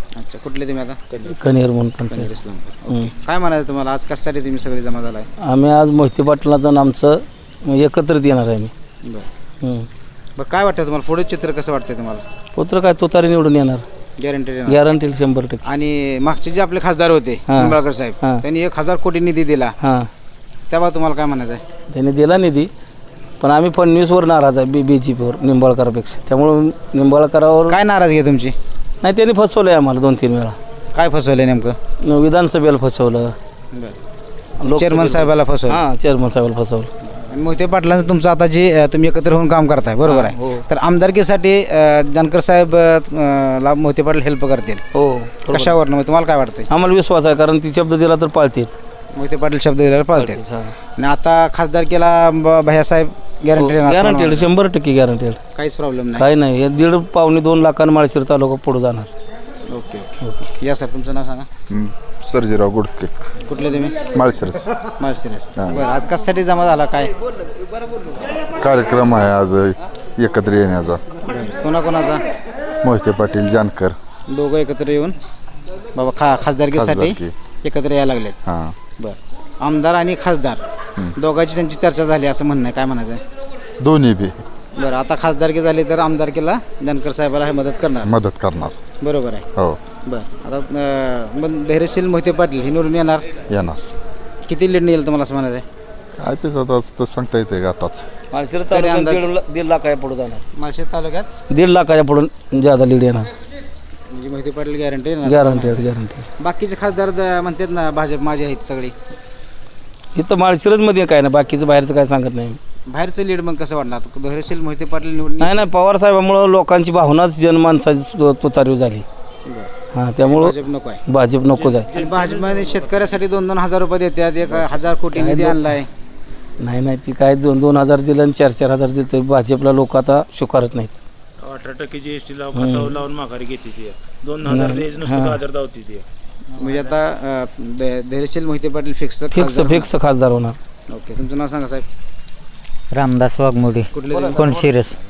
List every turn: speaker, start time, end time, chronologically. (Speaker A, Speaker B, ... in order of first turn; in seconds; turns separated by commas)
Speaker A: 0.1-1.0, Speaker B: 1.3-2.3, Speaker A: 2.1-5.3, Speaker B: 5.4-8.7, Speaker B: 9.6-9.9, Speaker A: 10.4-12.2, Speaker B: 12.6-13.8, Speaker A: 14.2-14.8, Speaker B: 14.7-15.6, Speaker A: 15.7-19.7, Speaker B: 17.5-18.4, Speaker B: 19.8-20.1, Speaker A: 20.7-21.6, Speaker B: 21.9-22.7, Speaker B: 23.4-27.8, Speaker A: 27.7-28.6, Speaker B: 29.0-30.6, Speaker A: 30.9-31.8, Speaker B: 32.0-33.4, Speaker B: 34.6-36.9, Speaker A: 34.7-35.8, Speaker A: 37.2-44.8, Speaker B: 40.0-40.6, Speaker B: 44.9-45.8, Speaker A: 45.5-46.7, Speaker B: 46.7-48.8, Speaker A: 49.1-50.4, Speaker B: 50.2-50.7, Speaker A: 51.0-54.5, Speaker B: 53.6-55.4, Speaker A: 55.5-56.3, Speaker B: 56.2-59.1, Speaker A: 59.7-61.5, Speaker C: 61.7-63.1, Speaker A: 63.5-64.0, Speaker C: 64.1-64.7, Speaker A: 65.0-67.1, Speaker C: 65.6-65.8, Speaker C: 68.6-71.0, Speaker A: 71.3-72.2, Speaker C: 72.8-74.0, Speaker A: 74.3-75.2, Speaker A: 75.9-78.4, Speaker C: 76.7-77.3, Speaker C: 78.5-78.7, Speaker A: 79.0-80.6, Speaker A: 81.2-83.2, Speaker C: 83.8-84.4, Speaker A: 84.8-88.1, Speaker C: 88.0-88.8, Speaker A: 89.0-89.5, Speaker A: 90.0-93.2, Speaker C: 93.5-93.8, Speaker A: 94.5-95.6, Speaker C: 96.2-98.1, Speaker B: 98.3-100.4, Speaker A: 98.7-99.3, Speaker A: 100.5-101.3, Speaker B: 101.5-103.3, Speaker A: 104.1-105.9, Speaker B: 105.2-106.2, Speaker A: 106.4-108.9, Speaker B: 110.2-112.6, Speaker A: 112.9-115.7, Speaker B: 115.4-119.1, Speaker A: 119.5-119.7, Speaker B: 119.9-120.5, Speaker A: 120.2-121.0, Speaker B: 121.1-121.9, Speaker D: 121.6-122.8, Speaker A: 121.9-125.9, Speaker B: 125.1-125.7, Speaker B: 126.6-131.0, Speaker D: 131.4-136.1, Speaker B: 132.5-132.9, Speaker B: 134.5-135.4, Speaker A: 136.6-139.9, Speaker B: 139.3-140.6, Speaker A: 140.9-141.8, Speaker E: 142.9-145.0, Speaker A: 143.9-144.6